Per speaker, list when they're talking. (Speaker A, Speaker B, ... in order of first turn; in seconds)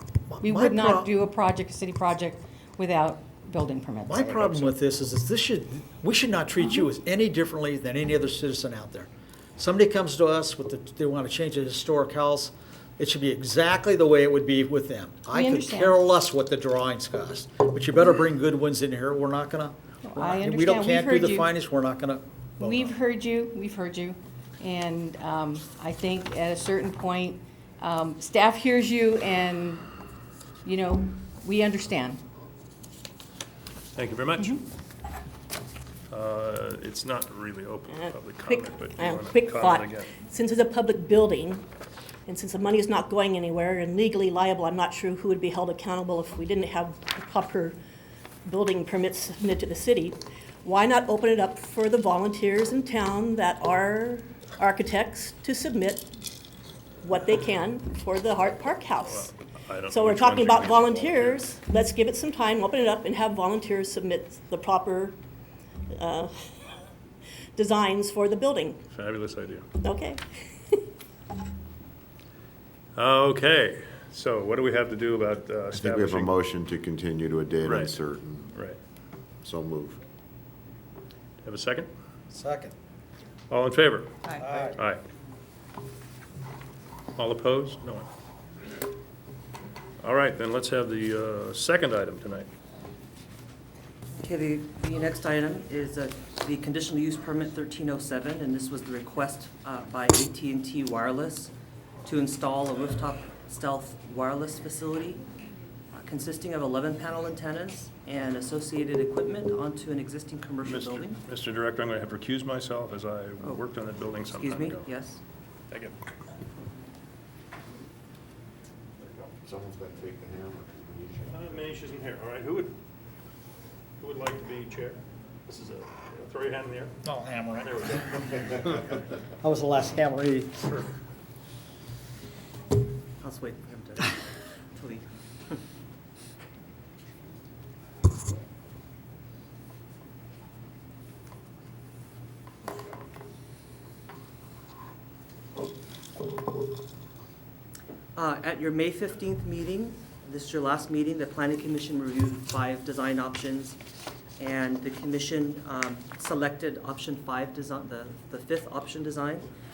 Speaker A: 0.3-1.1, 4.0-22.9, 82.3-82.7, 84.4-84.8, 127.0-127.8, 129.4-130.8
Speaker B: 0.4-4.2, 15.3-16.0, 20.0-21.5, 22.6-29.8, 30.6-32.2
Speaker C: 4.1-4.7, 33.9-34.6, 36.1-40.2, 59.0-61.5, 68.9-69.7, 73.0-76.3, 77.6-78.0, 78.5-78.8, 81.4-81.9, 83.5-84.1, 84.8-85.0, 87.2-88.1, 90.0-92.5, 110.6-114.9, 119.0-119.3, 121.3-122.7, 124.0-126.9, 127.6-128.2
Speaker D: 37.9-41.7, 42.2-47.8, 48.4-56.1, 57.0-59.3, 59.9-65.2, 65.9-66.9, 67.5-68.8, 69.8-70.8
Speaker E: 75.7-78.5, 79.4-80.0, 119.4-121.6
Speaker F: 94.2-101.5, 102.0-105.2, 105.9-111.2, 114.2-115.2, 133.2-134.2, 134.8-135.6, 148.1-153.8, 154.4-159.4